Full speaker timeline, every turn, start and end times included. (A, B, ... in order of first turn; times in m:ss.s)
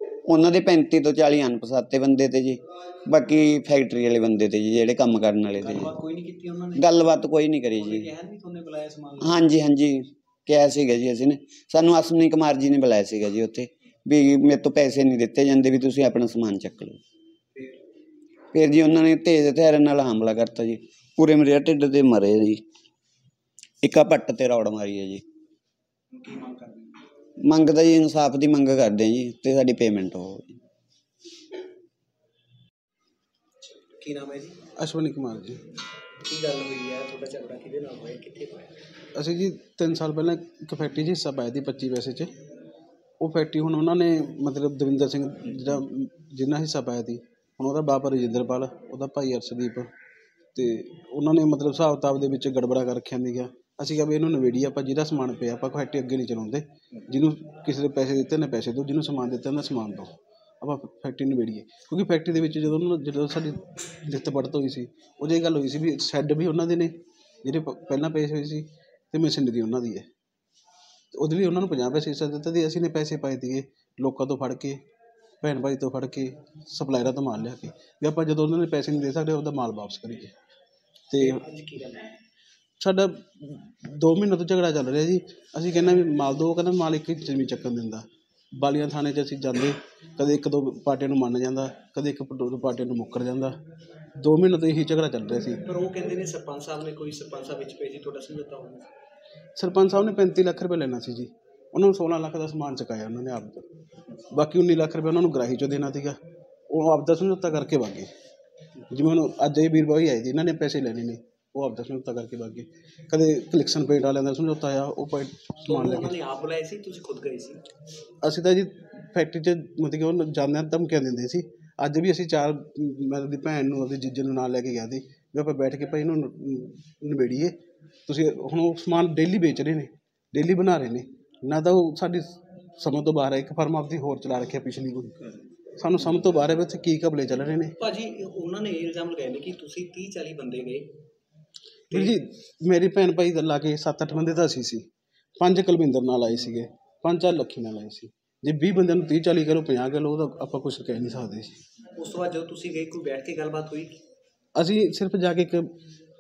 0:00.3-0:06.0 A
0:05.6-0:07.1 B
0:06.8-0:08.1 A
0:07.7-0:09.4 B
0:09.2-0:17.0 A
0:18.5-0:22.6 A
0:23.8-0:25.2 A
0:26.1-0:27.0 B
0:27.4-0:30.5 A
0:33.6-0:34.6 B
0:34.8-0:35.6 C
0:36.2-0:38.7 B
0:39.2-0:42.3 C
0:43.2-0:49.9 C
0:50.6-1:10.1 C
1:11.1-1:14.8 C
1:15.4-1:20.3 C
1:21.1-1:21.4 C
1:21.3-1:22.1 B
1:22.8-1:28.0 C
1:28.6-1:33.6 C
1:34.2-1:35.6 C
1:35.7-1:38.9 B
1:39.6-1:43.7 C
1:44.3-1:46.2 C
1:46.7-1:48.1 C
1:48.9-1:56.2 C
1:55.6-1:57.6 B
1:58.2-2:07.6 C
2:08.1-2:15.1 C
2:15.8-2:17.7 C
2:17.8-2:20.9 B
2:21.9-2:24.8 C
2:25.4-2:31.6 C
2:32.0-2:34.0 B
2:34.6-2:35.7 C